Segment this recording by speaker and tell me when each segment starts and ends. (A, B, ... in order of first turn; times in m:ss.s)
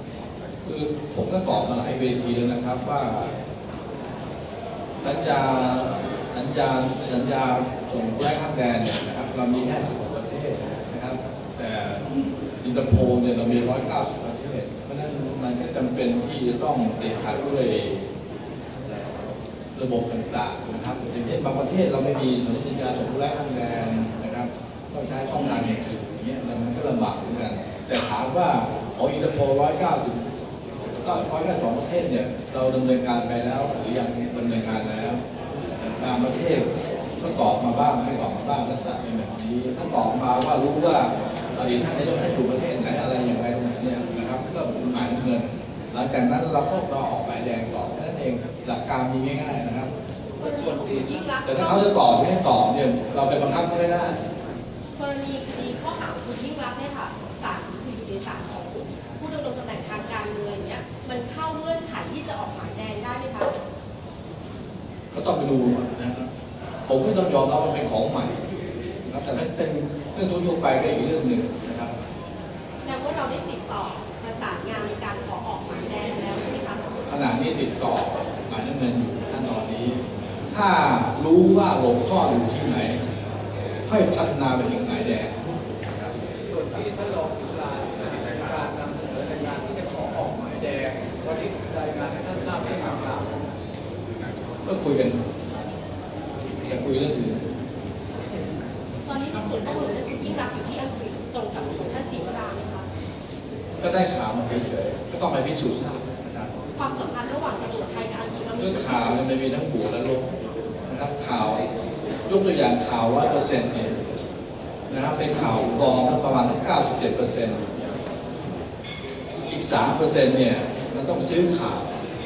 0:00.6-0:03.3 A
0:05.0-0:12.0 A
0:12.6-0:18.1 A
0:19.7-0:30.2 A
0:31.0-0:35.2 A
0:35.8-0:49.9 A
0:50.4-0:51.9 B
0:50.6-0:51.1 C
0:51.4-0:54.2 A
0:55.0-1:03.5 B
1:05.1-1:06.3 A
1:06.8-1:08.4 A
1:09.0-1:11.9 A
1:12.8-1:16.8 B
1:17.1-1:23.0 A
1:23.8-1:26.1 A
1:26.4-1:33.2 C
1:34.6-1:35.2 A
1:36.6-1:37.4 A
1:39.0-1:42.8 B
1:43.8-1:46.5 A
1:46.7-1:49.2 B
1:48.6-1:50.3 A
1:50.8-1:51.7 A
1:52.2-1:53.9 A
1:54.9-1:57.7 A
1:59.5-2:01.9 A